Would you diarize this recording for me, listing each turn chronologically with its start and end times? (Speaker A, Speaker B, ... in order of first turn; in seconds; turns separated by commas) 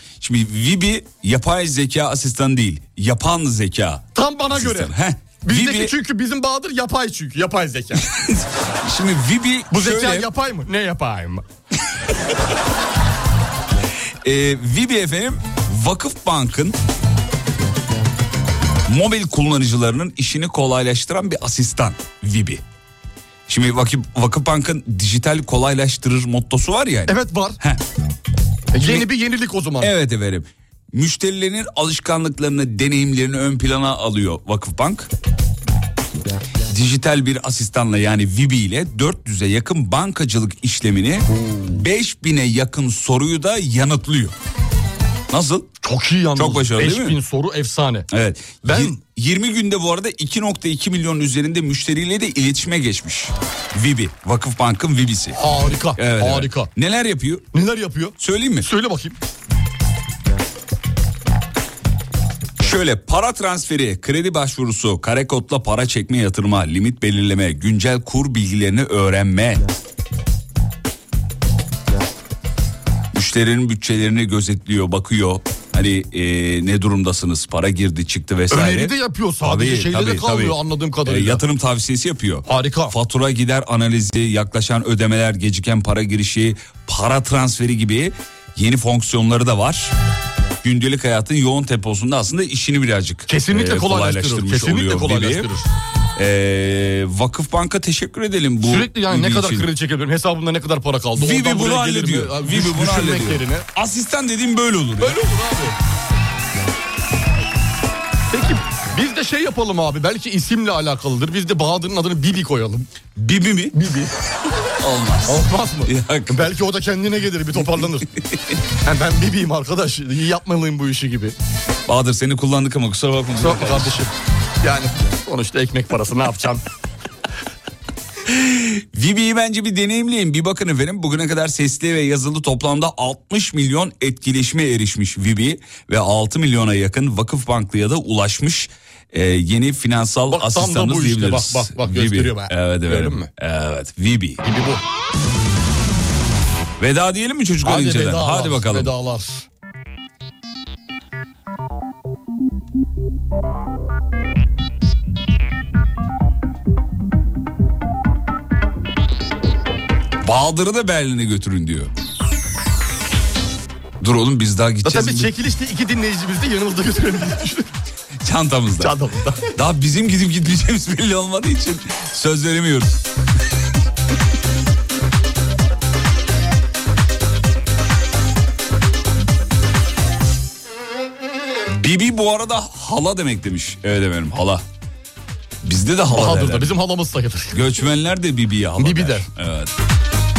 Speaker A: 0.2-5.9, Speaker B: 4.2-8.1, Speaker A: 8.0-10.3, Speaker B: 9.7-11.4, Speaker A: 14.2-16.8, Speaker A: 18.9-22.6, Speaker A: 23.5-27.8, Speaker B: 27.1-27.6, Speaker B: 28.7-29.9, Speaker A: 28.8-29.1, Speaker A: 29.8-35.1, Speaker A: 36.7-44.3, Speaker A: 45.3-45.7, Speaker B: 45.8-48.1, Speaker A: 46.4-47.2, Speaker A: 48.1-55.4, Speaker B: 48.6-49.0, Speaker B: 55.4-56.7, Speaker A: 56.0-57.5, Speaker B: 57.5-59.2, Speaker A: 58.2-58.7, Speaker A: 62.6-69.7, Speaker A: 73.1-89.9, Speaker B: 78.5-81.4, Speaker B: 82.5-83.0, Speaker A: 90.6-95.5, Speaker B: 93.3-95.7, Speaker A: 96.2-99.7, Speaker B: 98.6-103.7, Speaker A: 101.2-105.2, Speaker B: 105.0-105.8, Speaker B: 108.3-112.9, Speaker A: 113.2-113.8, Speaker B: 113.7-114.2, Speaker A: 114.8-116.5, Speaker B: 115.3-118.1, Speaker A: 118.2-118.6, Speaker B: 118.8-121.4, Speaker A: 121.9-124.0, Speaker B: 123.3-126.6, Speaker A: 128.3-144.4, Speaker B: 140.3-143.3, Speaker B: 144.4-144.8, Speaker A: 146.8-148.9, Speaker B: 147.6-149.5, Speaker A: 160.2-161.9, Speaker A: 164.0-165.3, Speaker B: 164.8-167.7, Speaker A: 168.2-169.0, Speaker B: 168.8-169.5, Speaker A: 169.5-173.0, Speaker A: 181.7-184.6, Speaker A: 185.6-186.7, Speaker B: 186.1-187.6, Speaker A: 187.5-189.7, Speaker B: 188.8-189.3